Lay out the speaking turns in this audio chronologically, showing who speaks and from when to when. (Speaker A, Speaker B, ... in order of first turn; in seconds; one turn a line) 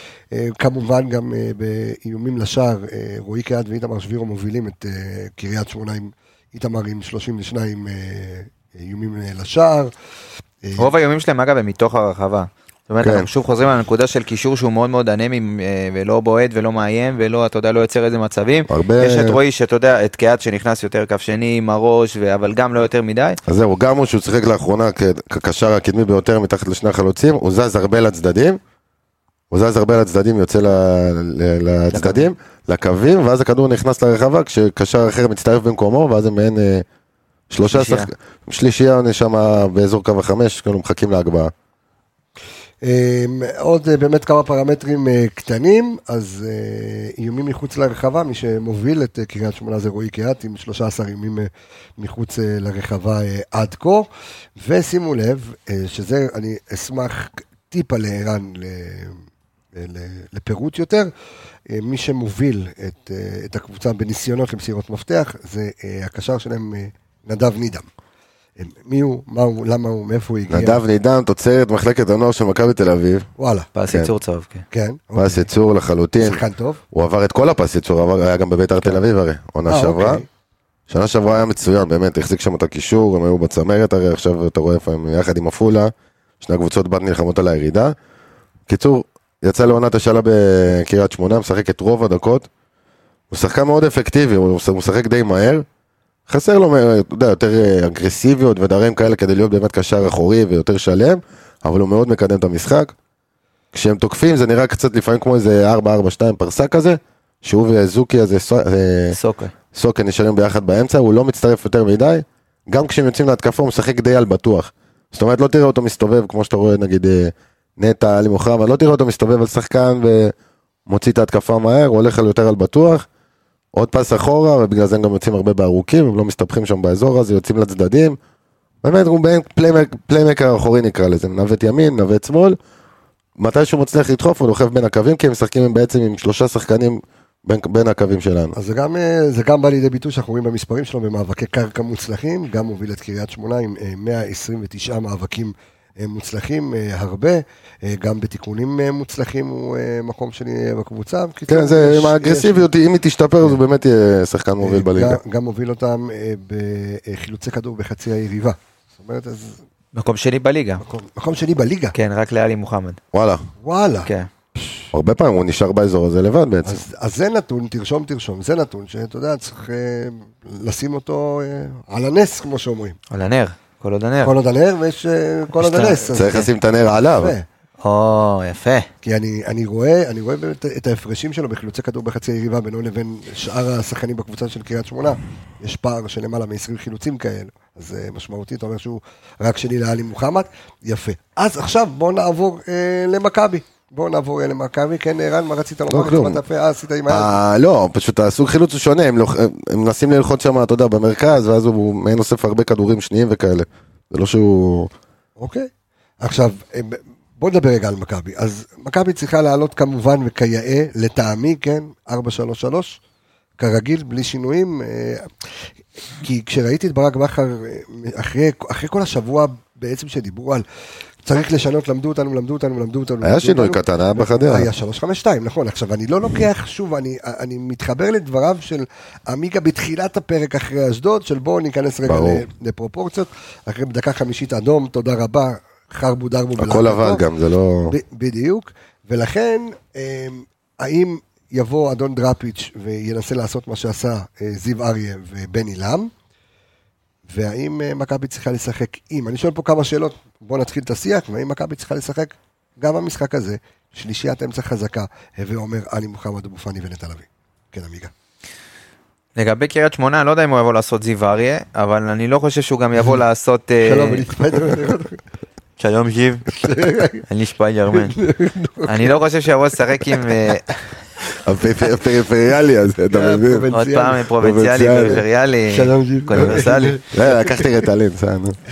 Speaker A: 0.3-9.9
Speaker A: 10.6-10.9
Speaker B: 10.8-23.4
Speaker C: 13.0-13.3
Speaker C: 18.7-19.4
Speaker C: 23.5-28.6
Speaker C: 29.5-36.9
Speaker B: 31.9-32.3
Speaker C: 37.5-41.5
Speaker B: 37.6-38.1
Speaker A: 42.8-59.2
Speaker A: 59.7-61.1
Speaker A: 61.7-67.9
Speaker A: 68.6-70.8
Speaker C: 70.5-73.3
Speaker A: 73.4-73.7
Speaker B: 73.8-74.7
Speaker A: 74.7-75.5
Speaker C: 75.2-80.2
Speaker A: 76.2-76.8
Speaker A: 79.7-80.3
Speaker C: 80.9-88.0
Speaker C: 88.7-92.5
Speaker C: 93.3-95.7
Speaker C: 96.3-102.9
Speaker C: 103.7-109.2
Speaker B: 109.1-109.5
Speaker C: 109.7-120.3
Speaker C: 120.9-123.1
Speaker C: 123.7-128.2
Speaker C: 128.8-132.6
Speaker C: 133.4-138.5
Speaker A: 138.5-152.7
Speaker C: 151.5-155.2
Speaker A: 154.6-159.6
Speaker B: 159.9-160.8
Speaker A: 160.8-161.9
Speaker B: 161.9-163.0
Speaker C: 163.1-163.5
Speaker A: 163.6-164.8
Speaker C: 164.9-166.8
Speaker A: 166.6-173.0
Speaker B: 173.1-174.3
Speaker A: 174.2-176.4
Speaker B: 175.6-176.5
Speaker C: 176.1-177.3
Speaker A: 177.2-177.5
Speaker B: 177.8-178.9
Speaker A: 179.0-197.3
Speaker C: 195.9-196.4
Speaker C: 197.1-204.9
Speaker A: 205.4-205.7
Speaker A: 206.2-213.0
Speaker A: 213.6-215.3
Speaker A: 216.2-220.6
Speaker A: 221.2-237.2
Speaker C: 223.2-224.7
Speaker C: 232.1-232.4
Speaker C: 236.6-237.9
Speaker A: 237.9-246.1
Speaker A: 247.3-258.1
Speaker B: 259.4-264.3
Speaker A: 263.8-265.2
Speaker B: 265.8-266.7
Speaker A: 266.6-267.2
Speaker B: 267.2-268.2
Speaker A: 267.9-269.2
Speaker B: 268.9-270.8
Speaker C: 271.4-273.7
Speaker A: 273.1-274.2
Speaker B: 273.7-277.0
Speaker C: 274.4-275.2
Speaker A: 275.7-277.7
Speaker C: 277.1-278.6